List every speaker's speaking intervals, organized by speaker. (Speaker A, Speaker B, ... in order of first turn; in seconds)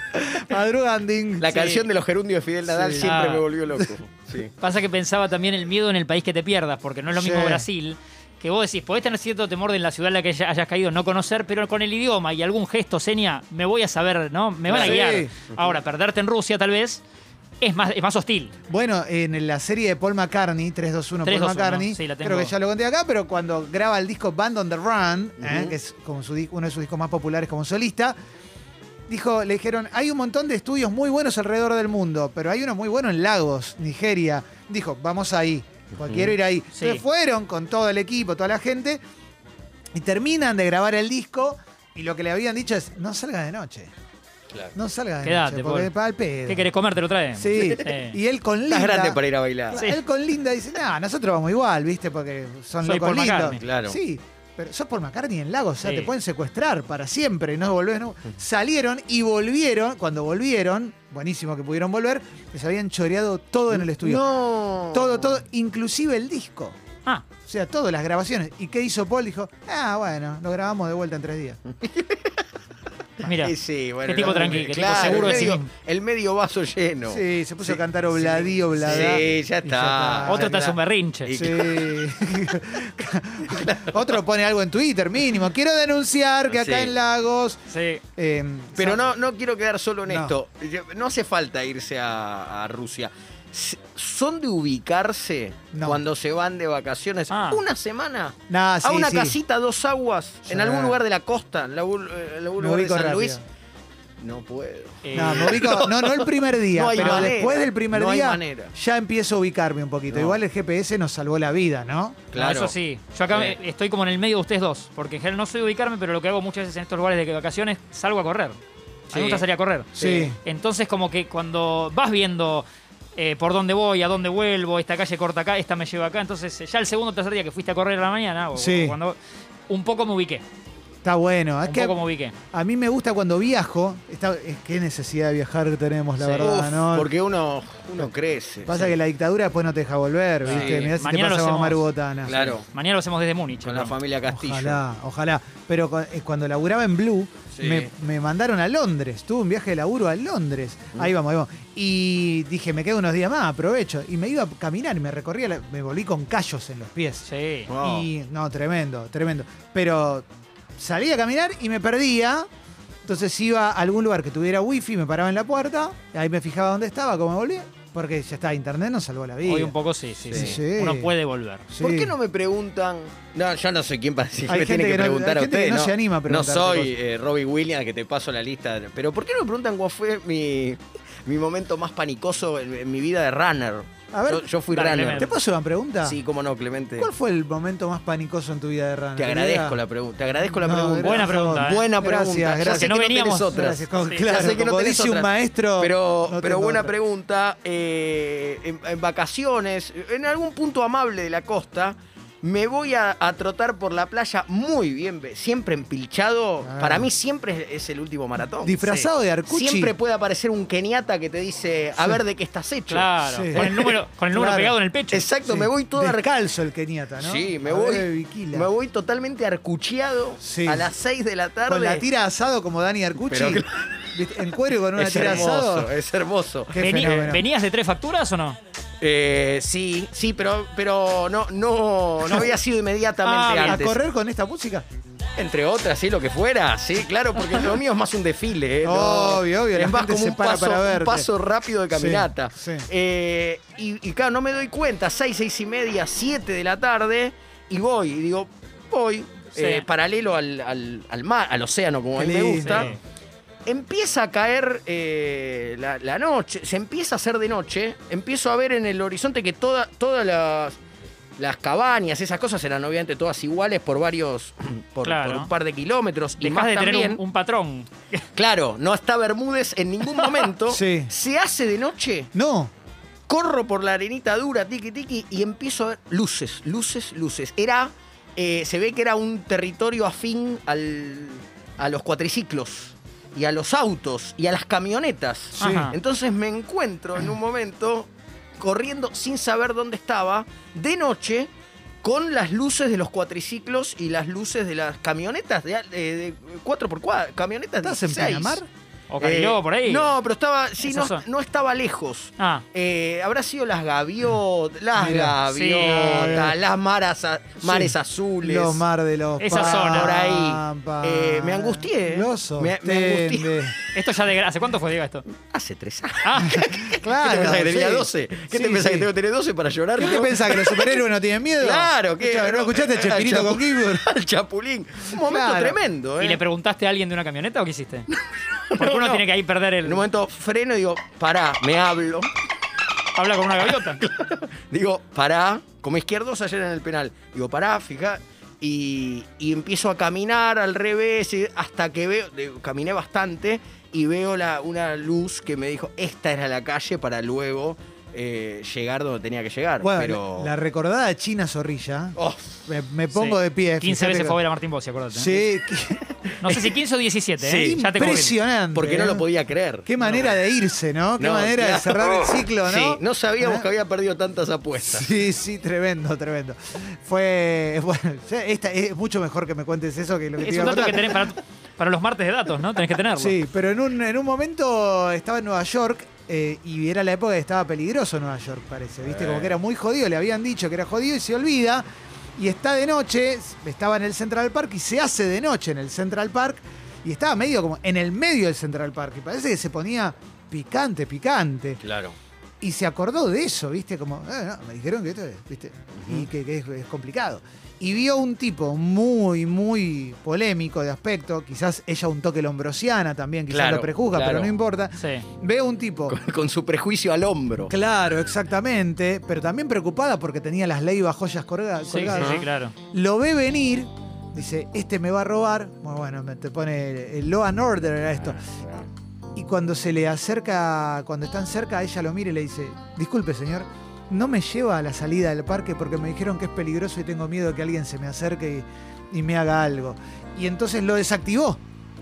Speaker A: 0.2-1.8, 2.7-3.1, 7.1-7.6, 14.7-15.3, 18.7-28.1, 29.1-39.0, 39.9-43.9, 44.7-46.7, 47.4-64.2, 64.9-66.8, 67.4-71.6, 74.2-75.6, 77.1-80.7, 81.3-87.6, 88.2-89.1, 90.1-90.3, 95.7-96.0, 98.5-99.4, 100.5-101.0, 102.6-103.4, 105.1-112.2, 120.0-120.4, 128.5-128.9, 131.0-131.9, 132.5-137.1, 138.6-142.6, 144.3-160.2, 160.8-162.5, 163.0-169.7, 170.3-171.1, 171.7-172.1, 174.5-176.9, 184.1-186.2, 187.0-189.8, 190.6-196.9, 206.6-207.1, 208.6-209.9, 213.3-213.7, 214.3-214.7, 215.4-218.7, 220.4-220.9, 221.7-225.9, 226.7-227.4, 233.5-234.8, 238.8-241.3, 241.9-242.9, 252.2-253.0, 270.7-271.1, 272.3-272.7, 285.6-285.9, 297.8-298.7, 304.9-306.5, 307.6-313.7, 316.5-319.1, 320.0-324.1, 325.1-325.8, 349.8-354.4, 355.1-356.1, 357.6-359.2, 359.8-363.6, 364.8-371.3, 373.2-381.8, 382.4-391.8, 392.6-406.2, 407.6-418.5, 419.4-431.6
Speaker B: 1.4-4.5, 14.7-15.0, 25.4-25.7, 36.0-36.3, 48.7-49.8, 53.6-54.0, 63.7-65.4, 71.7-72.4, 73.2-82.1, 83.5-84.2, 86.5-86.9, 88.8-103.4, 104.2-108.7, 110.1-110.4, 112.3-112.7, 113.3-113.6, 119.1-120.3, 136.3-138.9, 140.5-140.9, 142.2-142.7, 143.6-144.8, 147.5-147.9, 157.7-158.1, 170.3-170.6, 171.8-185.3, 186.0-187.1, 189.2-208.8, 209.5-214.0, 215.1-216.3, 217.2-222.1, 223.3-224.1, 224.9-227.3, 229.0-234.0, 235.3-252.9, 253.7-260.8, 261.4-267.2, 268.4-272.3, 273.3-291.5, 292.0-298.6, 299.2-308.9, 309.4-313.7, 315.3-321.0, 321.6-326.4, 328.1-329.3, 329.8-332.3, 333.6-350.5, 352.1-352.6, 356.2-356.7, 357.4-357.8, 358.7-360.3, 361.2-365.1, 379.1-379.6, 391.8-392.1, 395.9-396.2, 403.5-404.6, 406.1-407.7, 412.1-412.4, 418.3-418.9
Speaker C: 3.0-3.4, 4.6-17.0, 17.6-18.5, 21.2-22.5, 36.8-37.0, 45.2-45.9, 46.5-48.2, 49.7-50.0, 52.8-53.6, 55.8-56.1, 73.2-75.7, 80.2-81.3, 87.7-88.0, 97.3-97.6, 105.0-105.8, 106.9-107.3, 112.3-118.5, 119.1-122.6, 123.2-129.2, 129.7-130.4, 131.7-132.3, 136.2-136.5, 140.4-141.8, 142.6-143.9, 157.3-157.7, 169.4-171.7, 184.7-185.3, 191.0-191.9, 192.6-194.3, 212.9-215.3, 225.2-225.5, 226.8-228.6, 233.2-233.8, 249.5-249.8, 252.6-253.0, 265.0-265.5, 266.4-268.2, 285.6-285.9, 299.1-300.1, 300.8-301.2, 302.4-302.6, 305.5-306.4, 309.4-310.2, 313.9-315.2, 316.2-316.6, 326.2-328.1, 328.8-330.0, 333.1-334.0, 353.1-355.4, 356.4-358.4, 370.4-373.4, 405.0-405.2, 411.9-412.7